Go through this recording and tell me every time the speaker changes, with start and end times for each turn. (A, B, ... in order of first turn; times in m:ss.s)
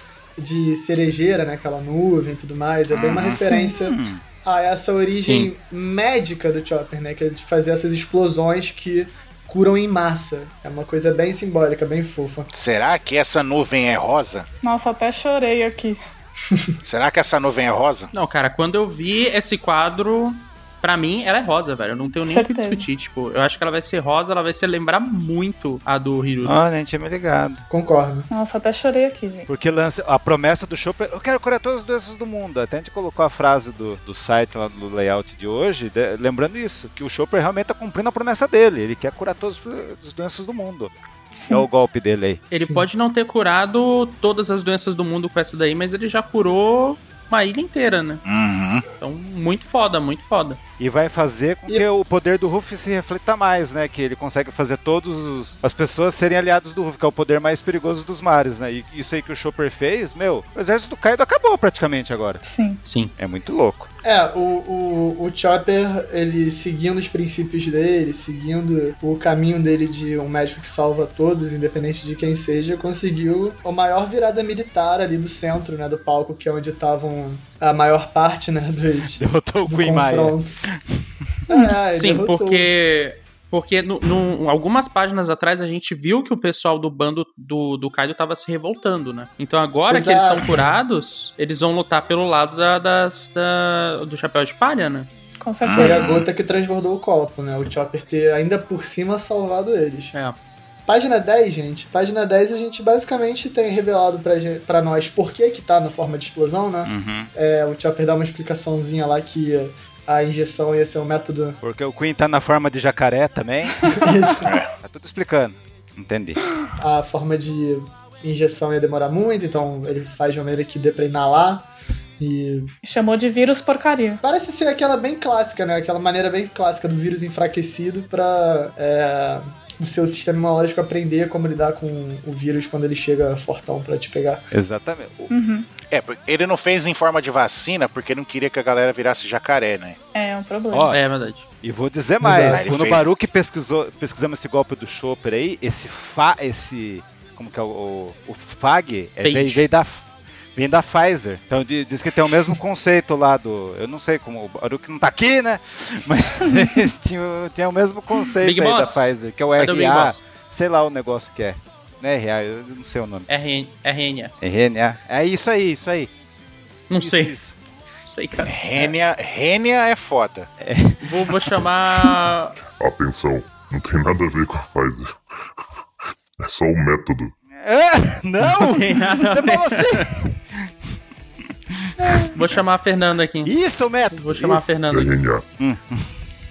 0:00.4-0:12.5 A
0:02.9-0:03.4 B
0:03.4-0:03.7 C
0:03.8-0:04.2 D
0:05.1-0:05.5 E
0:12.5-0:14.4 B
0:14.6-0:16.0 C
0:16.8-0:18.1 B
0:18.1-0:26.6 E
0:22.2-0:22.9 C
0:26.4-0:27.6 D
0:27.7-0:28.3 A
0:28.3-0:29.5 C
0:29.5-0:40.9 D
0:41.3-0:41.6 C
0:41.5-0:42.4 D
0:42.5-0:48.2 E
0:42.6-0:42.9 A
0:48.2-0:48.8 B
0:49.0-0:50.6 E
0:50.8-1:02.4 D
1:02.4-1:02.8 C
1:02.8-1:03.1 E
1:03.2-1:03.9 D
1:04.0-1:20.6 A
1:19.2-1:21.0 D
1:21.5-1:22.7 A
1:21.9-1:35.1 E
1:29.9-1:30.5 A
1:35.4-1:36.1 C
1:35.6-1:36.2 B
1:35.7-1:40.1 A
1:40.9-1:51.6 A
1:46.8-1:47.3 D
1:51.6-1:53.9 D
1:53.9-1:54.5 A
1:54.4-1:54.7 B
1:54.8-1:56.4 D
1:56.8-2:01.7 A
2:02.2-2:02.7 A
2:02.8-2:04.2 C
2:04.2-2:14.5 A
2:14.5-2:15.3 D
2:15.3-2:15.7 C
2:15.9-2:20.0 B
2:20.1-2:20.9 C
2:20.7-2:21.0 D
2:20.9-2:21.5 E
2:21.6-2:43.3 D
2:22.2-2:22.6 A
2:22.4-2:23.0 B
2:29.2-2:29.6 E
2:38.4-2:40.2 E
2:43.3-2:44.3 E
2:44.4-2:46.1 D
2:46.9-2:47.3 E
2:47.0-2:47.5 D
2:48.0-2:48.9 E
2:48.5-2:50.5 B
2:50.6-2:51.4 D
2:51.0-2:52.6 E
2:52.8-2:55.2 F
2:56.4-2:57.3 F
2:57.6-3:00.7 D
2:58.4-3:00.1 E
3:01.7-3:02.4 D
3:02.3-3:03.5 E
3:03.4-3:04.8 D
3:04.1-3:05.1 E
3:04.9-3:05.4 F
3:05.6-3:06.1 D